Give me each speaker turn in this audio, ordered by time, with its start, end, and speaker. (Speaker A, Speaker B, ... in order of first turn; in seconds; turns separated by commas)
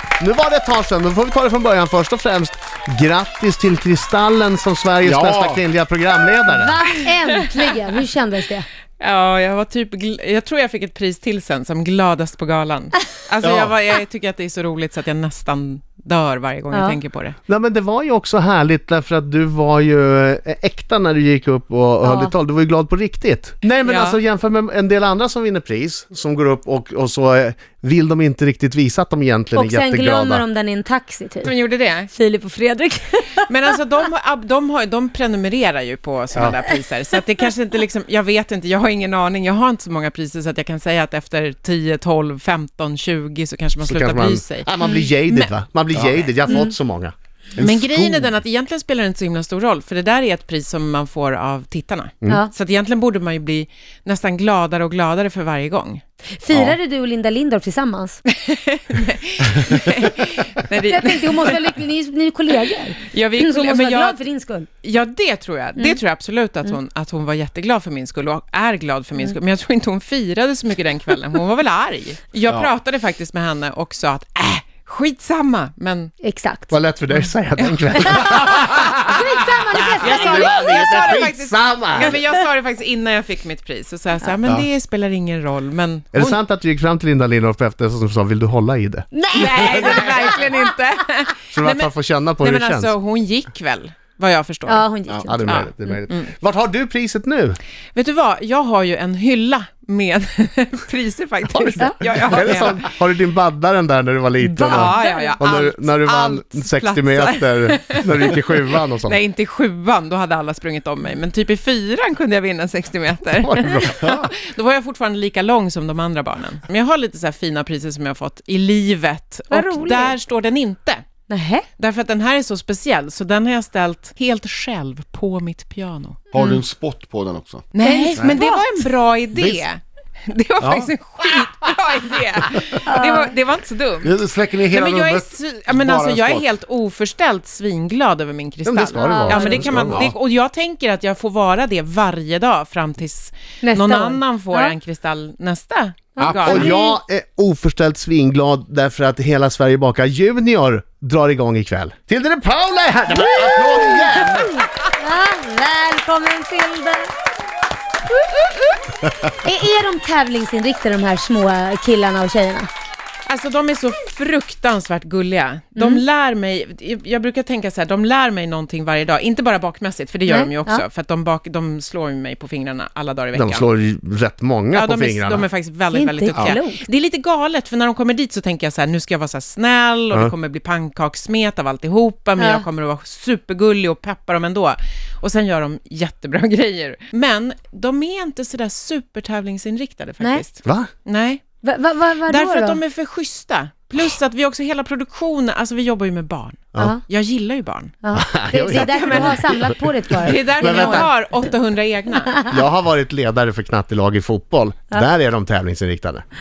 Speaker A: 0.2-6.8, Speaker B: 5.0-5.7, Speaker C: 6.5-8.7, Speaker D: 9.0-17.4, Speaker B: 13.4-13.7, Speaker C: 16.7-17.0, Speaker A: 17.5-30.4, Speaker C: 22.0-22.3, Speaker D: 23.8-24.2, Speaker C: 29.5-31.5, Speaker D: 31.4-32.1, Speaker C: 32.1-33.5, Speaker D: 33.5-45.5, Speaker A: 43.8-47.1, Speaker B: 45.9-46.2, Speaker D: 46.4-46.6, Speaker B: 47.6-48.3, Speaker D: 47.6-56.0, Speaker C: 56.4-58.2, Speaker D: 58.3-61.7, Speaker C: 60.9-64.7, Speaker D: 63.0-64.2, Speaker D: 64.8-76.1, Speaker C: 76.2-76.7, Speaker A: 76.7-78.9, Speaker C: 78.0-81.0, Speaker A: 79.8-82.2, Speaker D: 80.0-86.4, Speaker A: 86.1-90.2, Speaker C: 89.1-90.6, Speaker D: 89.3-94.9, Speaker A: 91.5-92.9, Speaker C: 94.7-95.5, Speaker A: 95.2-97.6, Speaker D: 95.4-96.3, Speaker D: 98.0-102.9, Speaker A: 101.5-109.2, Speaker D: 104.4-121.0, Speaker C: 104.6-105.4, Speaker A: 113.4-114.2, Speaker C: 119.5-120.2, Speaker C: 121.3-121.7, Speaker D: 121.8-126.6, Speaker B: 126.3-128.4, Speaker D: 127.7-134.2, Speaker C: 127.8-128.7, Speaker B: 129.3-129.6, Speaker B: 130.6-130.9, Speaker C: 132.8-133.3, Speaker B: 134.0-136.5, Speaker D: 134.7-146.8, Speaker A: 138.7-140.1, Speaker C: 138.9-139.7, Speaker B: 139.6-140.1, Speaker C: 143.6-144.7, Speaker C: 146.2-147.0, Speaker B: 146.2-146.6, Speaker A: 146.4-154.6, Speaker C: 153.2-154.4, Speaker C: 155.0-157.1, Speaker C: 159.4-162.7, Speaker D: 163.2-173.7, Speaker C: 165.8-166.0, Speaker C: 170.2-170.8, Speaker A: 173.3-175.5, Speaker D: 174.7-191.4, Speaker C: 175.9-176.8, Speaker A: 190.6-190.9, Speaker C: 191.6-192.8, Speaker D: 192.3-198.0, Speaker C: 198.0-201.1, Speaker A: 198.2-199.6, Speaker D: 198.6-202.3, Speaker A: 200.3-201.1, Speaker A: 202.5-206.2